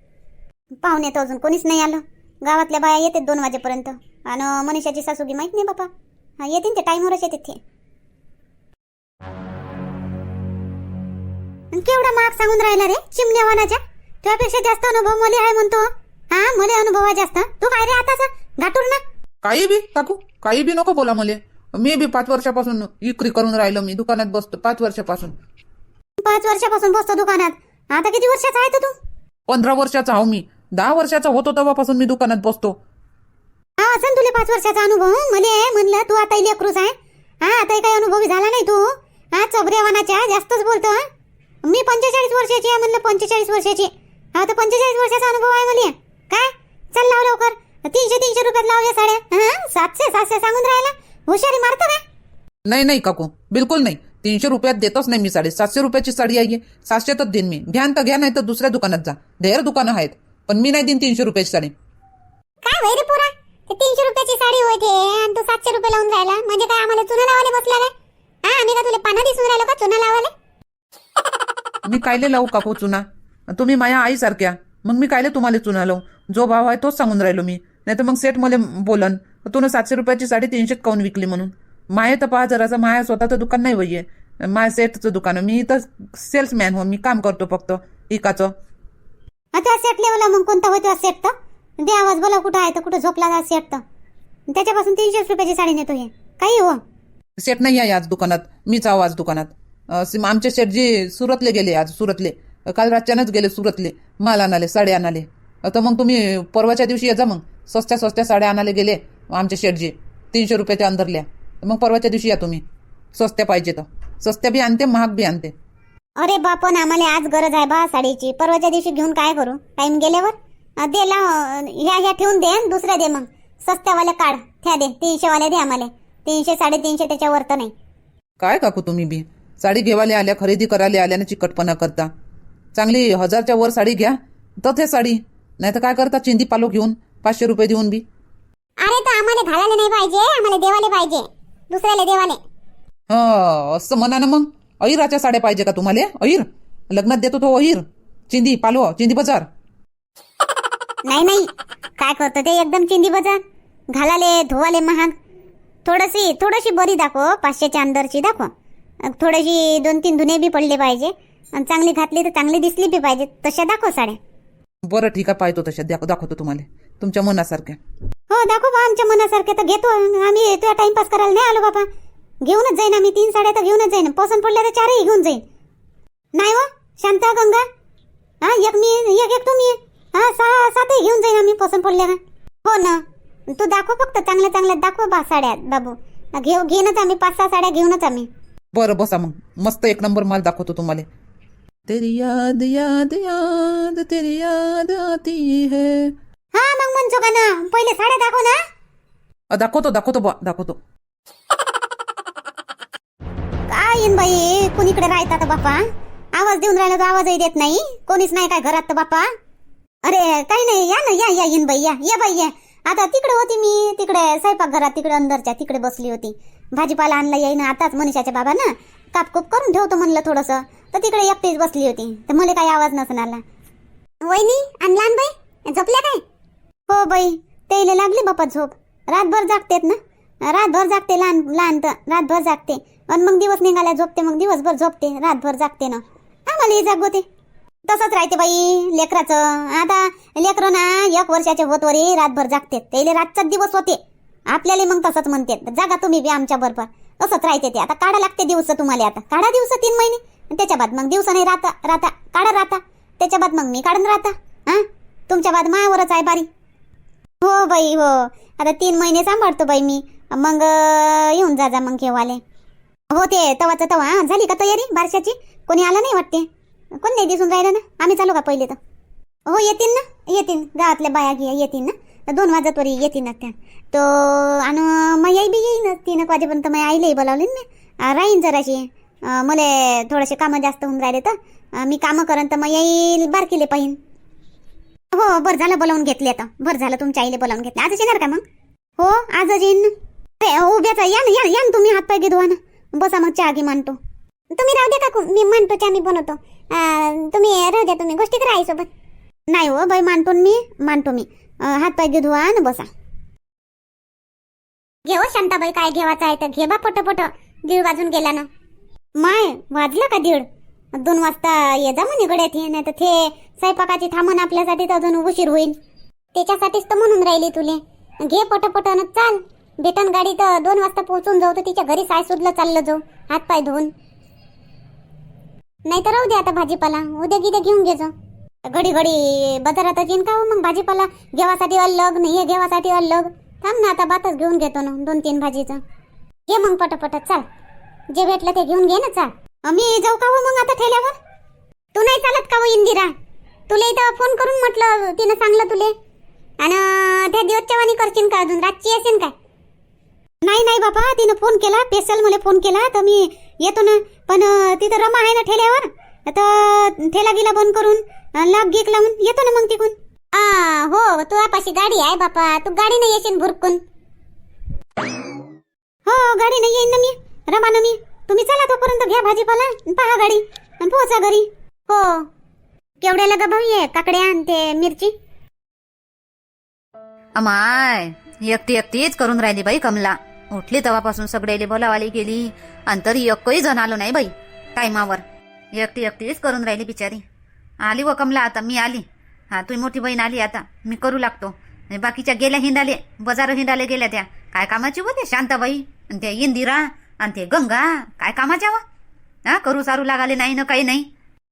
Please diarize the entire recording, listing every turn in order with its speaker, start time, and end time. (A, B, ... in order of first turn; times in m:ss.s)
0:00.8-0:07.6 A
0:11.7-0:19.0 A
0:19.4-0:25.3 B
0:26.2-0:29.0 A
0:29.5-0:32.8 B
0:33.8-0:41.1 A
0:41.7-0:52.0 A
0:52.7-1:01.7 B
1:02.6-1:07.9 A
1:08.4-1:10.3 A
1:11.8-1:28.5 B
1:29.5-1:33.8 A
1:34.5-1:36.8 A
1:37.4-1:52.6 B
1:53.2-1:55.5 B
1:56.2-2:07.7 A
2:08.4-2:12.1 B
2:12.7-2:18.0 B
2:18.8-2:22.4 A
2:23.1-2:29.5 B
2:31.0-2:33.4 A
2:33.9-2:35.2 A
2:35.8-2:38.5 A
2:39.0-2:44.2 A
2:44.9-2:47.8 B
2:48.3-2:51.9 A
2:52.4-2:55.4 A
2:56.4-2:57.6 A
2:58.4-3:08.3 A
3:08.7-3:11.1 B
3:11.9-3:16.1 B
3:16.5-3:18.6 A
3:19.5-3:20.8 B
3:23.7-3:25.8 A
3:26.4-3:29.3 A
3:30.0-3:43.4 A
3:44.2-3:46.2 A
3:46.9-3:57.2 A
3:57.9-4:16.5 A
4:17.4-4:22.4 A
4:23.1-4:26.5 A
4:27.0-4:28.8 A
4:29.5-4:44.0 A
4:45.1-4:48.4 A
4:49.0-4:54.0 A
4:54.5-4:58.9 A
4:59.5-5:02.9 A
5:05.1-5:08.5 A
5:09.2-5:15.8 A
5:16.4-5:23.9 A
5:25.9-5:28.1 A
5:28.7-5:35.8 A
5:36.5-5:37.4 A
5:38.1-5:41.2 A
5:42.0-5:43.1 A
5:43.7-5:45.9 A
5:46.6-5:49.3 A
5:50.4-6:03.8 A
6:06.1-6:12.3 A
6:13.0-6:15.1 A
6:17.4-6:25.2 C
6:25.7-6:27.2 C
6:27.8-6:38.8 C
6:39.5-6:41.1 C